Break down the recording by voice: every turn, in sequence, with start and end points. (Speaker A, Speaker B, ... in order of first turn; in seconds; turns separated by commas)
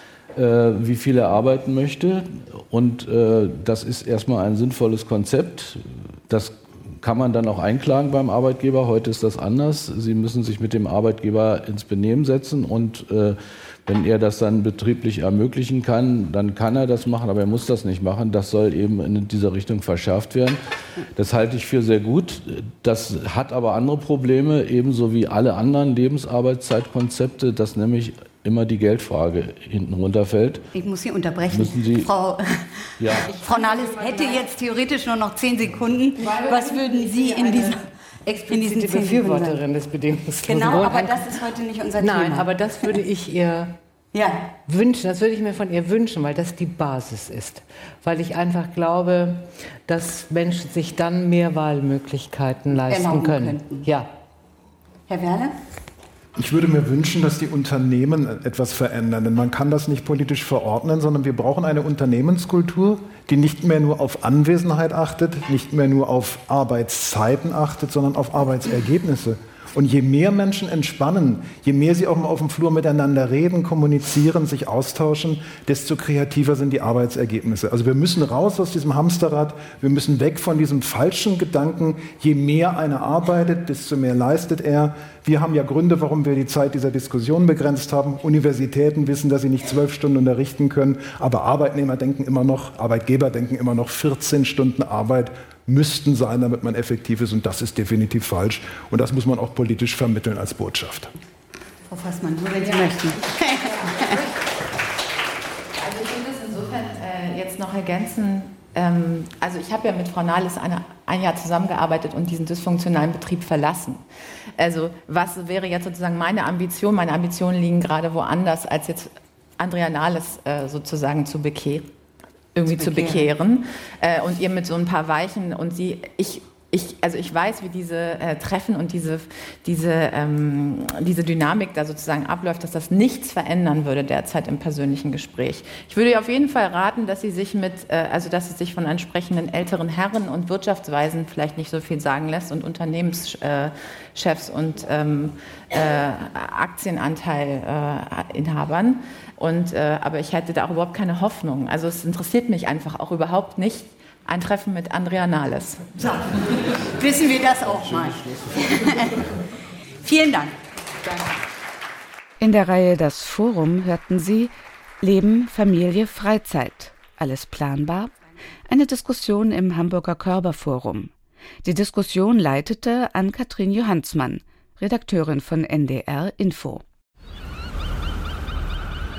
Speaker A: 0.3-20.6, Speaker A: 21.2-30.6, Speaker B: 30.7-37.9, Speaker A: 31.5-32.1, Speaker A: 33.0-33.3, Speaker C: 38.3-41.3, Speaker B: 38.5-39.6, Speaker B: 40.5-42.5, Speaker C: 42.0-43.8, Speaker B: 44.1-44.5, Speaker C: 44.7-54.1, Speaker B: 52.9-53.9, Speaker B: 55.1-55.5, Speaker D: 56.4-101.1, Speaker B: 101.9-104.3, Speaker E: 105.8-114.0, Speaker E: 114.6-121.9, Speaker E: 122.5-155.9, Speaker B: 122.7-123.3, Speaker B: 156.0-159.3, Speaker A: 157.7-158.5, Speaker B: 160.0-160.6, Speaker F: 162.4-168.1, Speaker F: 168.7-171.1, Speaker F: 171.6-176.8